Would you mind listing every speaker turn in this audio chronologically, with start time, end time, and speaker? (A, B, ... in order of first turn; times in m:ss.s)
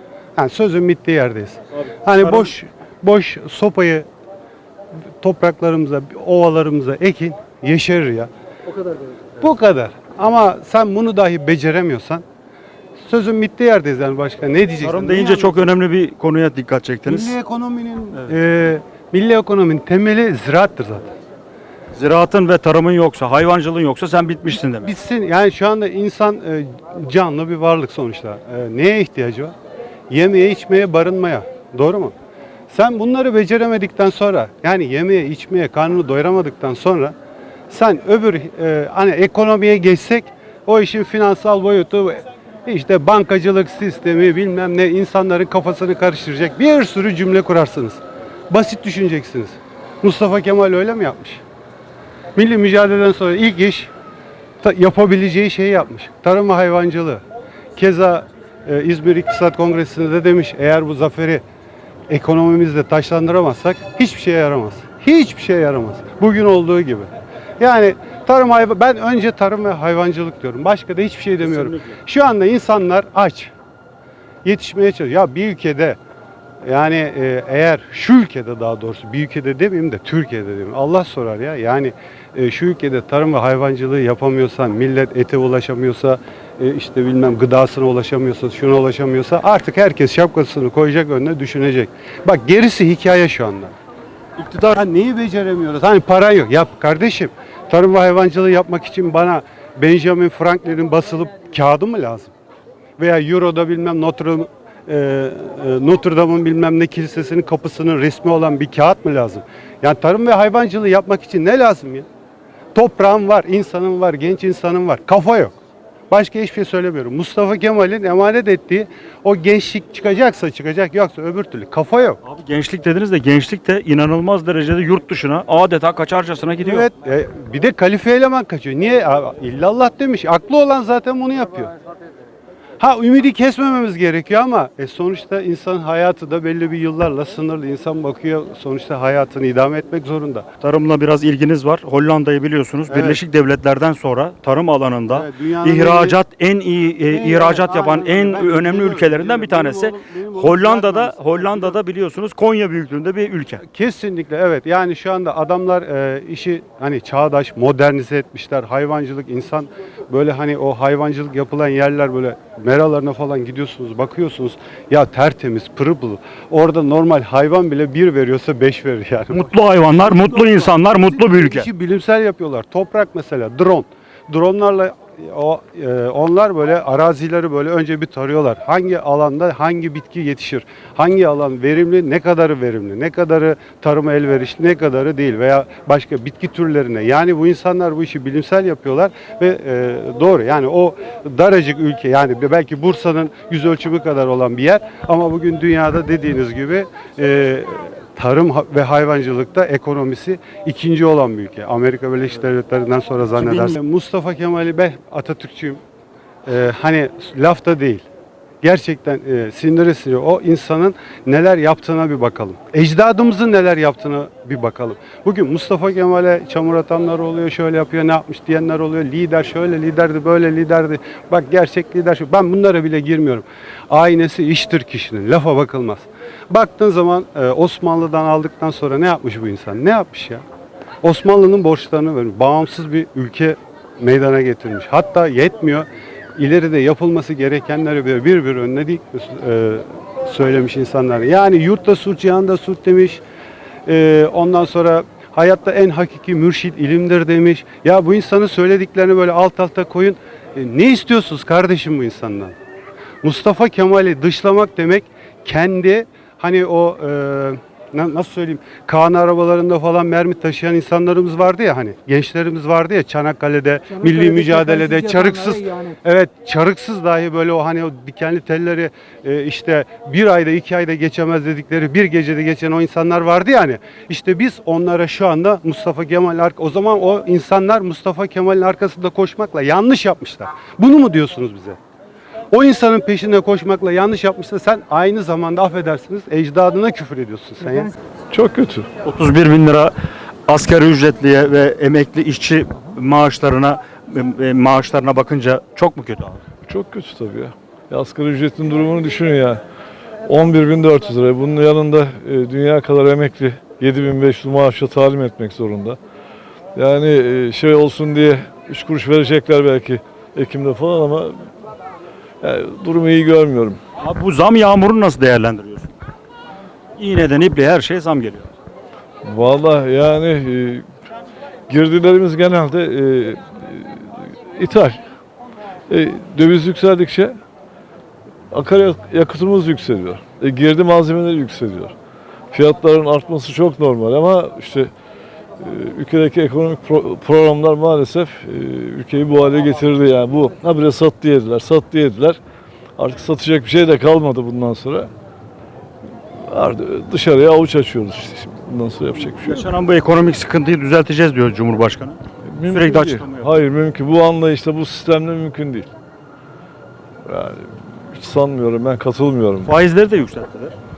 0:00.4-0:04.1 A
0:05.2-0:08.3 A
0:09.4-0:12.2 A
0:13.0-0:15.6 A
0:14.8-0:17.3 B
0:17.0-0:21.1 A
0:21.9-0:24.9 B
0:24.5-0:29.5 A
0:30.1-0:32.1 A
0:32.7-0:37.1 A
0:37.7-0:51.4 A
0:52.4-0:53.9 A
0:54.6-0:57.2 A
0:57.8-1:01.4 A
1:02.1-1:13.5 A
1:11.4-1:12.0 B
1:14.4-1:16.0 A
1:16.6-1:33.7 A
1:34.4-1:34.8 B
1:34.7-1:42.3 A
1:43.0-1:52.0 A
1:52.7-1:55.5 A
1:56.1-2:02.2 A
2:02.2-2:06.9 B
2:06.6-2:11.7 A
2:12.8-2:20.4 A
2:20.6-2:33.6 B
2:22.9-2:23.2 A
2:25.1-2:26.2 A
2:27.1-2:31.8 A
2:33.7-3:25.8 A
2:49.3-2:51.7 B
3:23.4-3:23.8 B
3:26.5-3:28.0 A
3:28.6-3:50.4 A
3:51.0-4:03.2 A
4:03.8-4:12.5 A
4:13.2-4:41.8 A
4:42.5-4:47.9 A
4:48.3-4:48.9 C
4:49.0-4:49.9 B
4:50.5-4:56.4 B
4:56.7-4:59.6 C
5:00.3-5:06.0 C
5:06.8-5:11.4 C
5:12.4-5:13.8 C
5:14.0-5:15.9 B
5:17.0-5:18.5 B
5:19.2-5:20.8 C
5:21.7-5:25.0 C
5:25.9-5:27.4 C
5:28.5-5:31.9 C
5:32.5-5:34.9 C
5:35.6-5:42.4 C
5:43.0-5:45.1 C
5:46.5-5:49.6 C
5:49.4-5:53.5 B
5:52.4-5:55.9 C
5:57.2-5:59.7 C
5:59.6-6:00.7 B